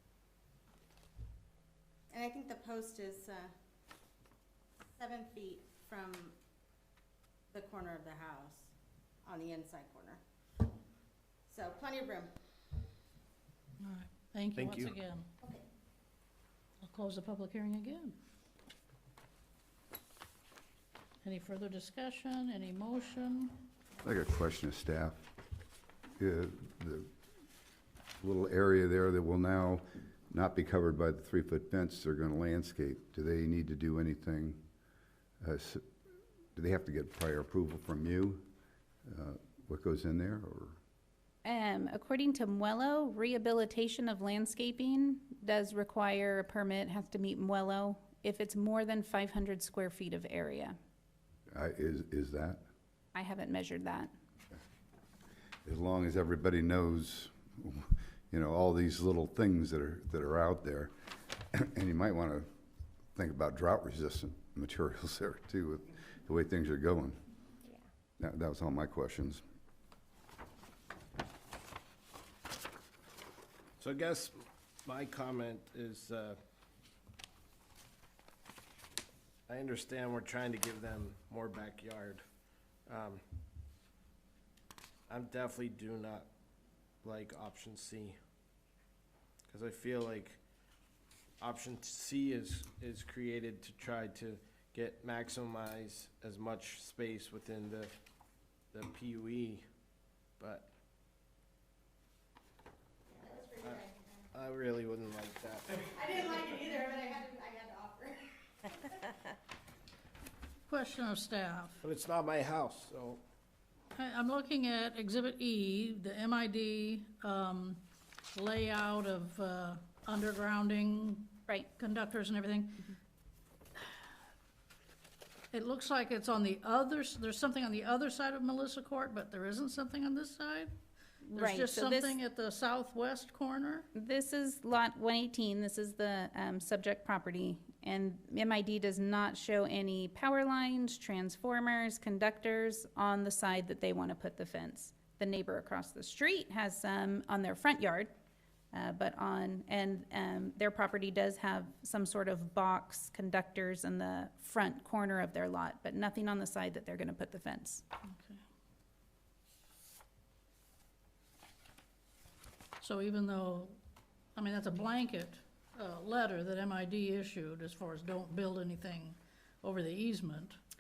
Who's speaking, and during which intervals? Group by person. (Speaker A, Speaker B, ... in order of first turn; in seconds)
Speaker A: 2.1-3.5, 5.0-6.3, 7.5-8.7, 9.2-10.2, 11.5-12.3, 103.1-103.9, 105.8-108.3
Speaker B: 13.8-15.3, 16.8-18.2, 21.2-23.6, 110.7-111.8, 114.0-122.9, 125.5-130.7, 131.3-133.9, 158.1-158.4, 162.8-163.8, 164.4-170.6
Speaker C: 14.6-14.9, 73.8-76.4, 79.5-82.2, 82.9-83.2, 85.1-86.3, 87.0-88.2, 89.5-90.4, 91.4-97.9, 98.7-99.7, 100.4-100.7, 103.6-105.8, 111.8-113.2
Speaker D: 24.0-25.2, 26.2-27.1, 28.2-34.6, 35.4-35.8, 36.5-38.5, 39.1-40.8, 51.5-52.6, 55.6-60.9, 61.5-62.5, 63.1-67.2, 68.2-69.4
Speaker E: 41.4-50.8, 53.1-54.1, 131.3-132.2, 133.9-148.1, 148.7-157.8